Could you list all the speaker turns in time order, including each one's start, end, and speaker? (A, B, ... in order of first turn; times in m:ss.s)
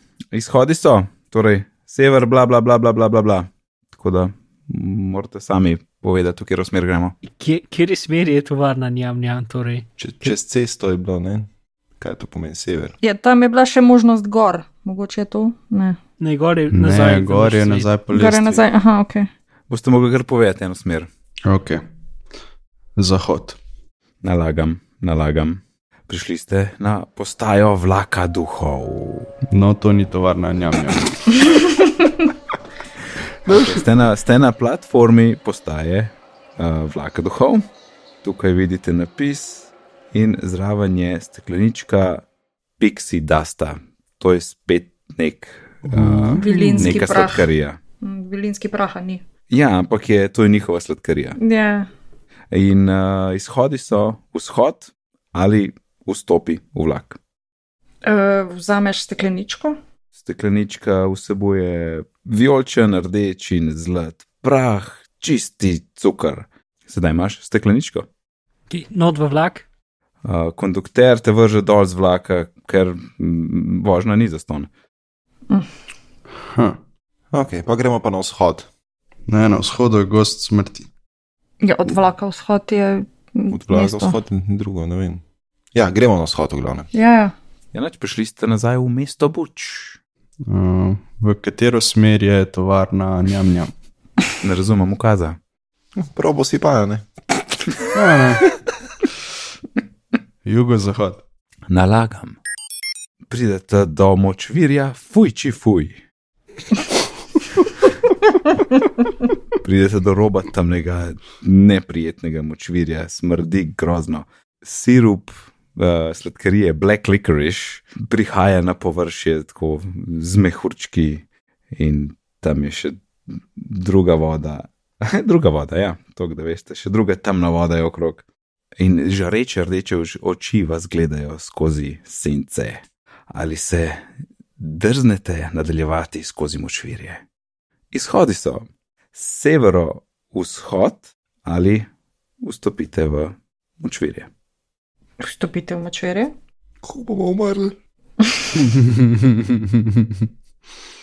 0:00.3-0:07.1 A
0:07.2-0:10.3 B
0:10.0-0:11.5 C
0:12.0-0:13.0 C
0:13.0-0:16.0 D
0:16.2-0:17.9 B
0:16.7-0:18.6 E
0:18.1-0:19.3 D
0:19.7-0:21.1 A
0:21.4-0:21.8 E
0:23.0-0:23.6 E
0:24.2-0:29.3 A
0:29.5-0:31.4 E
0:33.4-0:37.6 A
0:38.2-0:42.2 A
0:42.8-0:47.8 A
0:45.9-0:47.0 E
0:46.4-0:47.5 D
0:48.0-0:49.2 D
0:49.5-0:51.4 A
0:51.4-0:51.9 D
0:52.5-0:57.2 A
0:58.0-0:59.8 D
1:00.2-1:08.1 A
1:08.7-1:09.6 B
1:10.2-1:14.7 A
1:16.5-1:16.8 E
1:17.3-1:18.7 C
1:19.3-1:20.9 E
1:21.6-1:24.2 D
1:23.5-1:25.2 C
1:25.7-1:26.9 C
1:26.9-1:27.3 D
1:27.7-1:30.0 A
1:30.4-1:33.7 E
1:34.4-1:35.4 A
1:36.0-1:37.1 C
1:37.9-1:38.5 E
1:40.4-1:41.2 E
1:41.7-1:42.4 A
1:43.3-1:46.0 A
1:49.6-2:08.2 A
2:08.8-2:14.0 A
2:14.6-2:17.2 A
2:17.9-2:21.9 A
2:22.4-2:24.3 A
2:25.2-2:26.3 D
2:26.8-2:27.7 C
2:28.8-2:30.1 E